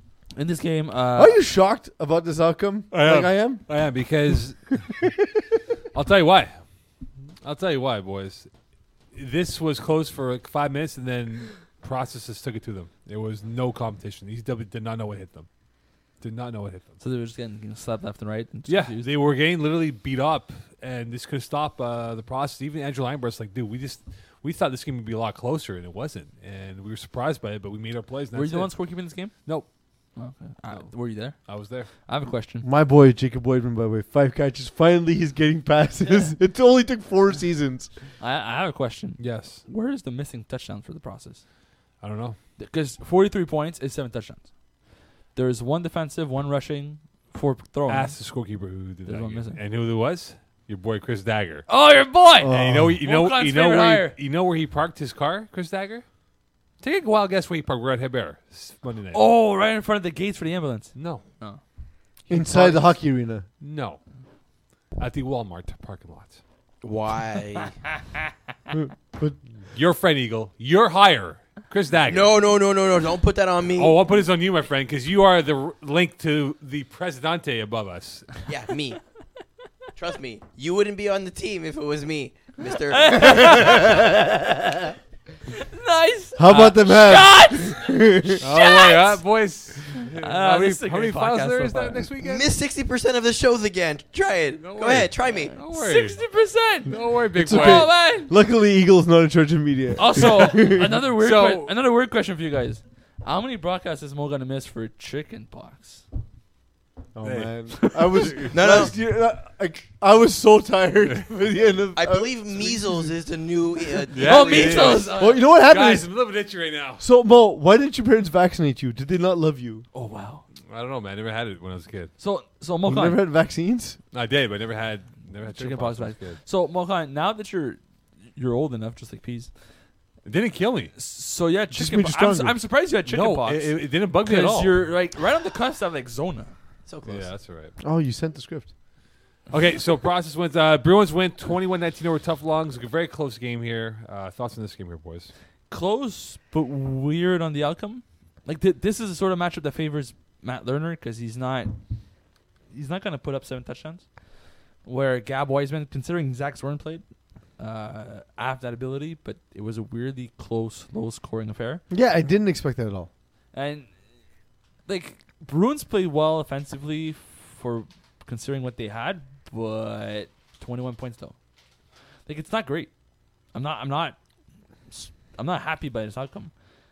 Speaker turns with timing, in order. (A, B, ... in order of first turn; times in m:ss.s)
0:00.4-0:01.4 A
0:01.1-0:03.7 B
0:02.9-0:05.0 C
0:05.9-0:06.6 C
0:07.4-0:08.5 C
0:09.1-0:15.5 C
0:16.2-0:17.0 C
0:17.0-0:19.1 A
0:18.7-0:28.8 C
0:28.3-0:32.6 A
0:30.7-0:31.9 C
0:32.6-0:37.9 B
0:38.2-0:41.4 A
0:39.2-0:39.6 C
0:42.0-0:42.4 C
0:42.6-0:44.5 A
0:45.3-0:48.2 A
0:47.9-0:51.7 C
0:49.0-0:49.6 A
0:51.7-0:54.2 A
0:52.4-0:53.0 B
0:52.5-0:56.0 C
0:56.8-0:59.2 C
0:59.1-1:01.6 A
1:00.9-1:01.2 C
1:02.3-1:03.4 B
1:02.3-1:03.0 C
1:03.6-1:04.0 C
1:05.0-1:06.4 C
1:06.8-1:07.8 D
1:08.7-1:09.4 B
1:09.7-1:12.4 C
1:12.1-1:14.0 D
1:13.8-1:18.4 C
1:18.4-1:19.0 D
1:20.0-1:24.3 D
1:22.8-1:23.9 A
1:25.6-1:29.2 A
1:26.4-1:28.4 B
1:28.4-1:32.5 C
1:30.1-1:32.0 A
1:32.2-1:35.6 D
1:34.6-1:36.2 C
1:35.4-1:38.3 A
1:36.8-1:37.9 C
1:37.4-1:41.0 B
1:40.0-1:46.0 A
1:40.6-1:41.7 C
1:47.1-1:53.1 B
1:47.2-1:48.9 C
1:48.5-1:48.9 D
1:51.9-1:55.1 D
1:54.1-1:57.0 C
1:54.2-1:55.4 A
1:55.1-1:56.1 B
1:57.0-1:59.8 B
1:59.9-2:00.4 A
2:00.7-2:02.1 C
2:02.2-2:03.2 A
2:02.8-2:04.0 B
2:04.1-2:06.4 C
2:05.5-2:07.8 A
2:08.3-2:09.5 A
2:10.2-2:10.9 C
2:10.9-2:16.5 A
2:11.7-2:12.6 B
2:13.0-2:15.0 C
2:16.8-2:17.3 D
2:17.0-2:17.7 C
2:17.8-2:18.7 B
2:19.5-2:25.3 C
2:25.7-2:31.8 A
2:32.7-2:34.1 A
2:34.8-2:37.0 A
2:37.6-2:41.8 A
2:41.9-2:43.1 B
2:43.5-2:43.9 A
2:44.8-2:51.4 A
2:52.2-2:52.9 A
2:53.5-2:54.2 A
2:54.9-2:56.5 A